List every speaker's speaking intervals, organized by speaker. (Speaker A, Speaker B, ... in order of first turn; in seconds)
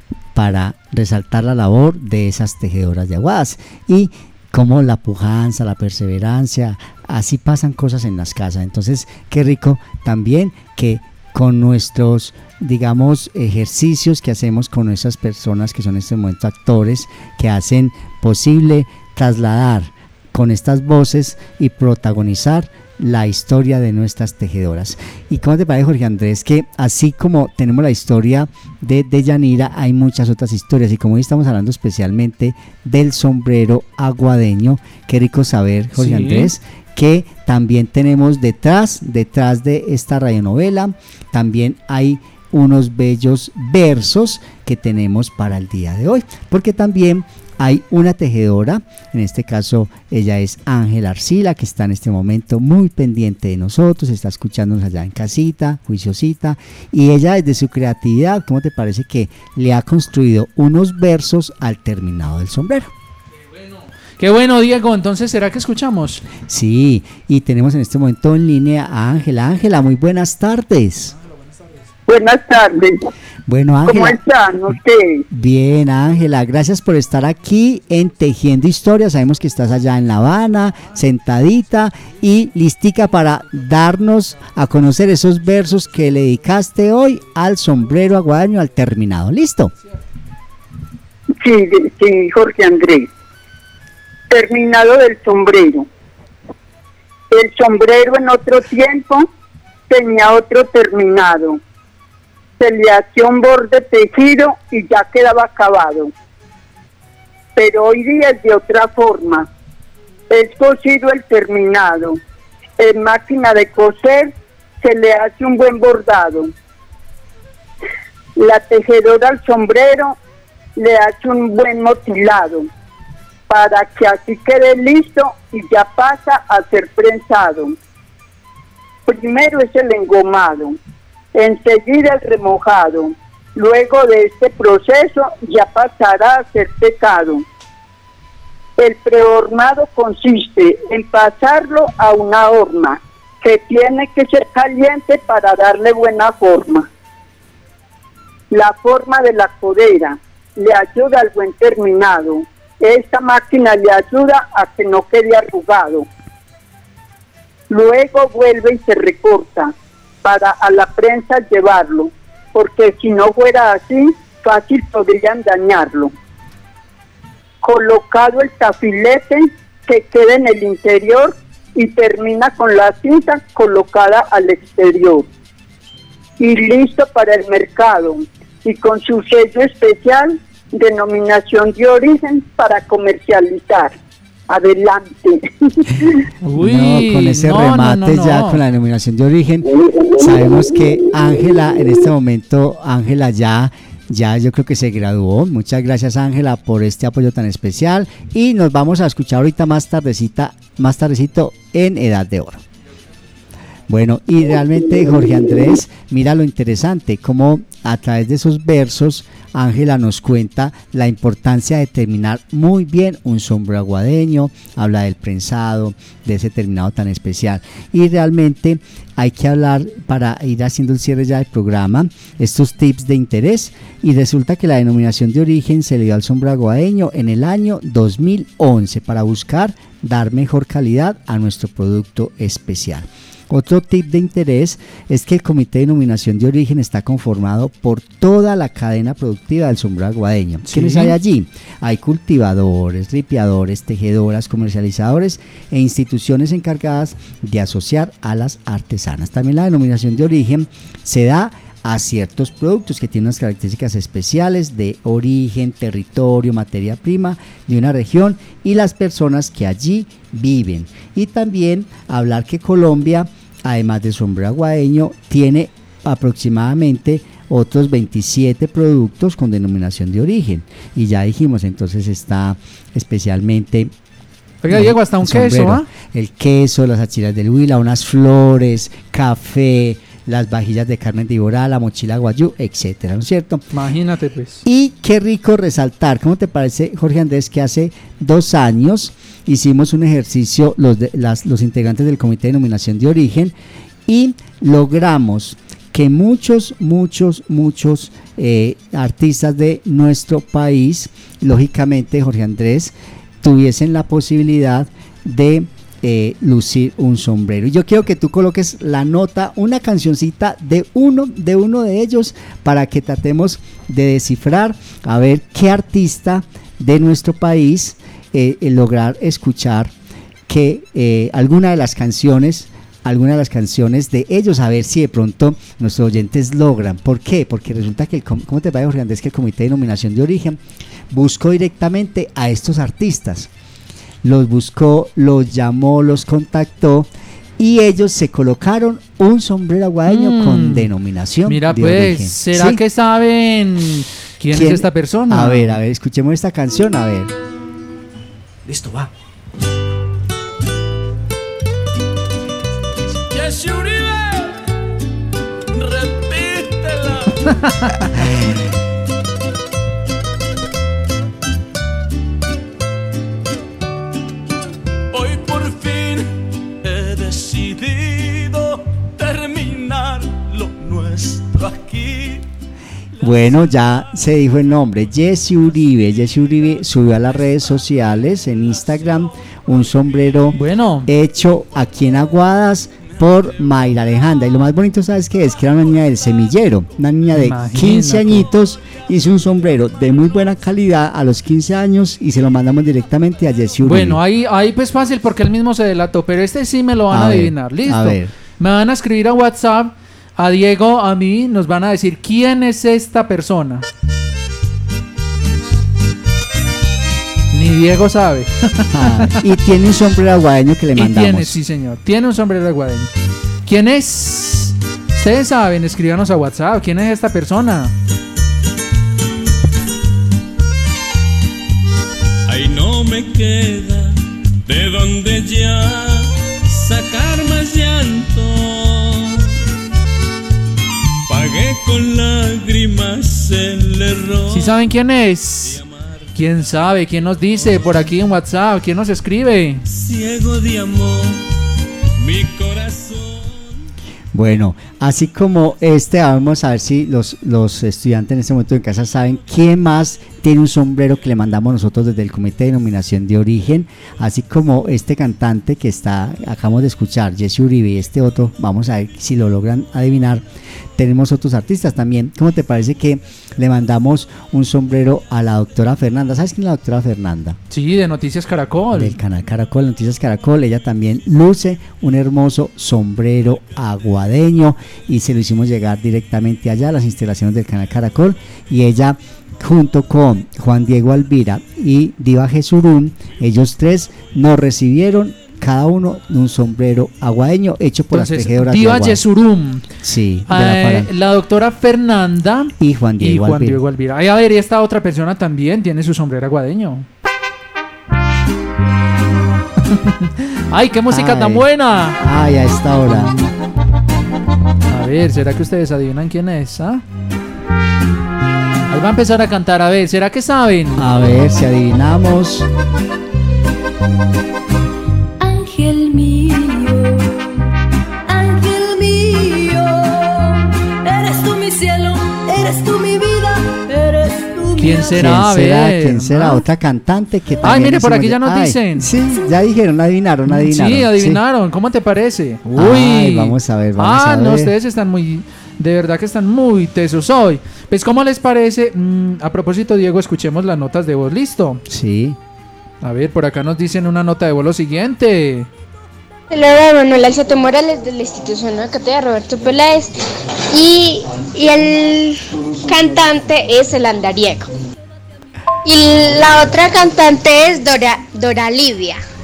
Speaker A: 0.3-62.9, 66.4-71.1, 73.5-74.2, 75.3-89.7, 186.5-202.6, 203.9-273.9, 274.7-283.6, 284.6-293.6, 294.1-319.9, 320.5-330.6, 331.1-333.5, 334.2-342.8, 344.5-347.3, 373.2-394.2, 397.1-398.3, 408.9-411.6, 444.3-460.4, 461.0-467.6, 468.9-489.2, 490.0-491.1, 492.8-493.8, 501.1-501.7, 502.2-503.4, 511.0-512.7, 525.1-531.4, 532.8-534.7, 541.9-542.4
Speaker B: 36.0-36.5, 64.2-66.2, 186.4-188.6, 240.6-241.2, 274.6-275.9, 283.7-284.6, 340.1-340.9, 341.5-345.8, 357.9-358.1, 380.5-381.1, 387.3-388.5, 393.8-403.9, 407.5-409.4, 410.9-413.1, 413.6-417.9, 434.5-435.8, 436.4-439.8, 467.7-469.1, 488.1-489.9, 490.5-497.1, 499.9-502.2, 504.9-507.0, 508.9-511.0, 524.8-526.6, 527.6-529.1, 530.5-541.8, 543.0-545.7
Speaker C: 72.1-73.0, 73.9-75.2, 91.4-93.1, 94.3-95.9, 97.3-99.2, 99.9-101.6, 102.6-106.1, 107.6-109.5, 110.3-112.2, 112.8-116.5, 118.4-120.2, 120.8-122.7, 123.5-127.7, 129.1-130.8, 131.3-137.4, 138.8-146.9, 148.5-156.1, 157.7-159.7, 160.2-166.1, 167.6-175.3, 176.4-183.9, 184.5-186.1
Speaker D: 348.7-349.1, 353.3-354.6, 355.7-357.6, 365.1-372.4, 422.5-424.2, 424.7-429.4, 431.3-434.8, 439.9-441.4, 442.2-443.6
Speaker E: 515.4-517.2, 518.3-520.1, 521.0-525.3
Speaker F: 546.5-550.1, 550.7-554.7, 555.8-559.2